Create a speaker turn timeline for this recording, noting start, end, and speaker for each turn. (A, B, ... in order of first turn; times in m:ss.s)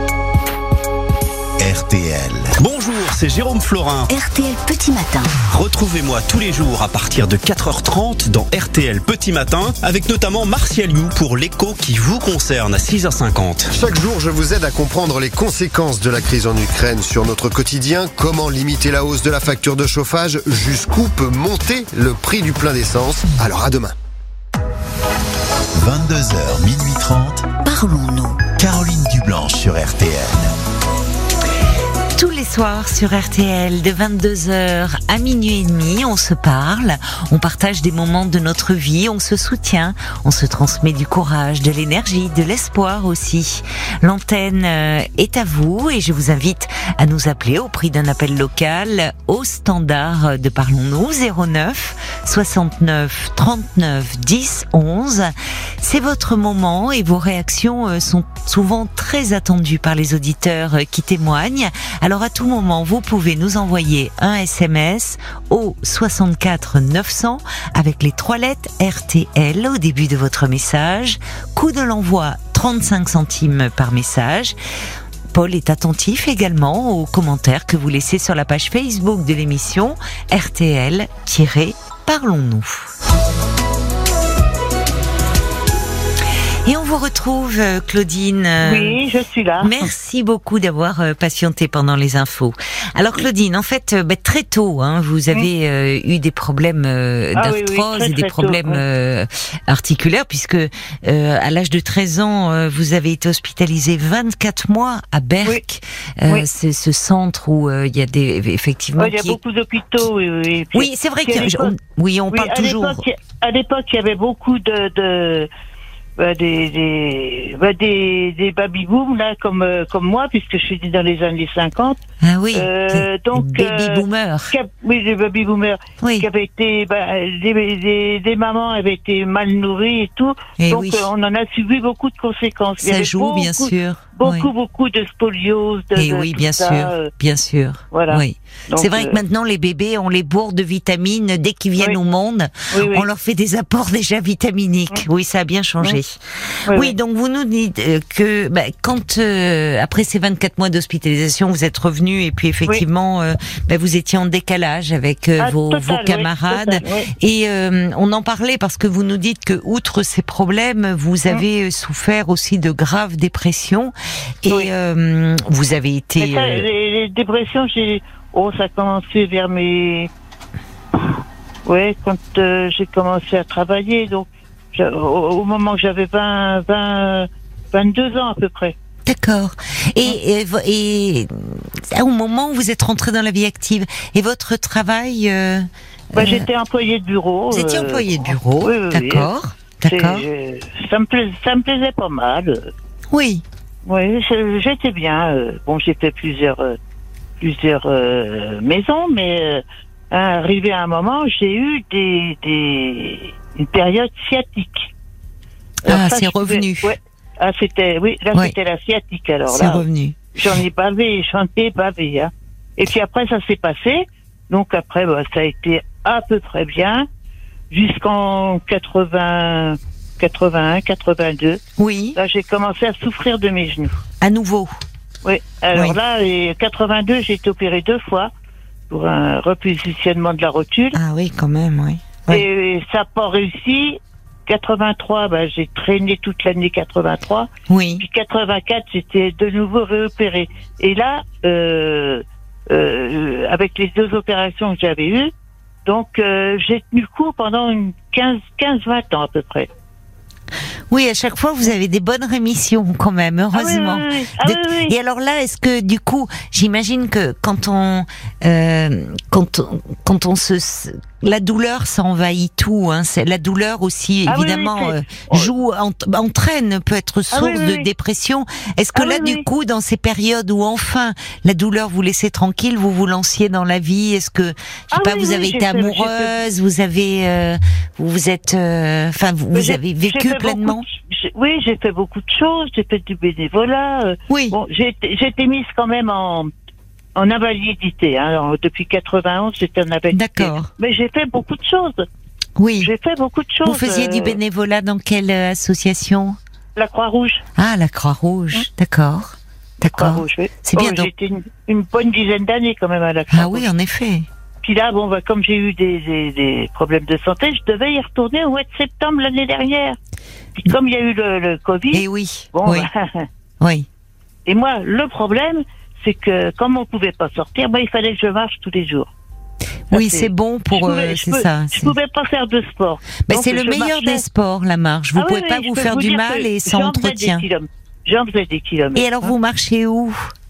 0:01.6-0:02.6 A
0:02.6-0:04.1 B
0:04.1-0:05.3 C
0:05.5-0:13.7 B
0:13.7-0:23.9 D
0:25.7-0:27.5 A
0:27.6-0:28.4 C
0:28.6-0:30.5 A
0:32.2-1:14.6 C
1:15.3-1:22.9 C
1:26.6-1:29.0 C
1:28.6-1:29.9 E
1:29.6-1:49.4 C
1:37.4-1:38.8 E
1:49.0-1:51.7 E
1:50.7-1:53.0 C
1:52.3-1:55.5 E
1:56.2-2:02.0 E
2:02.2-2:04.5 C
2:02.5-2:17.1 E
2:06.0-2:06.3 C
2:10.6-2:11.0 C
2:12.8-2:14.5 C
2:16.0-2:46.6 C
2:17.9-2:19.2 E
2:22.7-2:23.0 E
2:26.7-2:26.9 E
2:35.4-2:37.1 E
2:46.2-2:50.1 E
2:51.6-2:58.7 E
2:59.0-3:06.5 C
3:06.1-3:09.3 E
3:07.5-3:10.2 C
3:09.9-3:12.7 E
3:13.1-3:13.4 C
3:13.8-3:16.8 E
3:17.4-3:24.9 E
3:25.8-3:26.9 C
3:25.8-3:29.8 E
3:29.5-3:30.2 C
3:30.4-3:37.0 E
3:37.7-3:41.6 E
3:41.8-3:42.2 C
3:42.2-3:44.0 E
3:44.2-3:44.7 C
3:45.2-3:48.3 E
3:48.9-3:51.0 E
3:50.9-3:52.4 C
3:52.3-3:57.5 E
3:57.7-3:58.0 C
3:58.0-4:05.3 E
4:05.8-4:09.7 E
4:10.9-4:40.8 C
4:13.5-4:14.9 E
4:24.3-4:25.5 E
4:27.3-4:27.9 E
4:28.9-4:29.4 E
4:34.9-4:36.3 E
4:39.5-4:46.5 E
4:44.3-4:44.6 C
4:47.2-4:52.0 E
4:50.1-4:50.7 C
4:52.6-4:52.9 C
4:52.8-4:54.4 E
4:53.6-4:56.4 C
4:56.8-4:57.4 E
4:57.6-5:01.1 C
4:59.9-5:03.7 E
5:03.3-5:04.3 C
5:04.6-5:10.0 E
5:10.6-5:13.3 E
5:11.9-5:12.9 C
5:13.6-5:13.9 C
5:14.4-5:19.1 E
5:19.9-5:21.9 C
5:19.9-5:24.2 E
5:23.3-5:27.4 C
5:25.2-5:29.3 E
5:28.9-5:30.3 C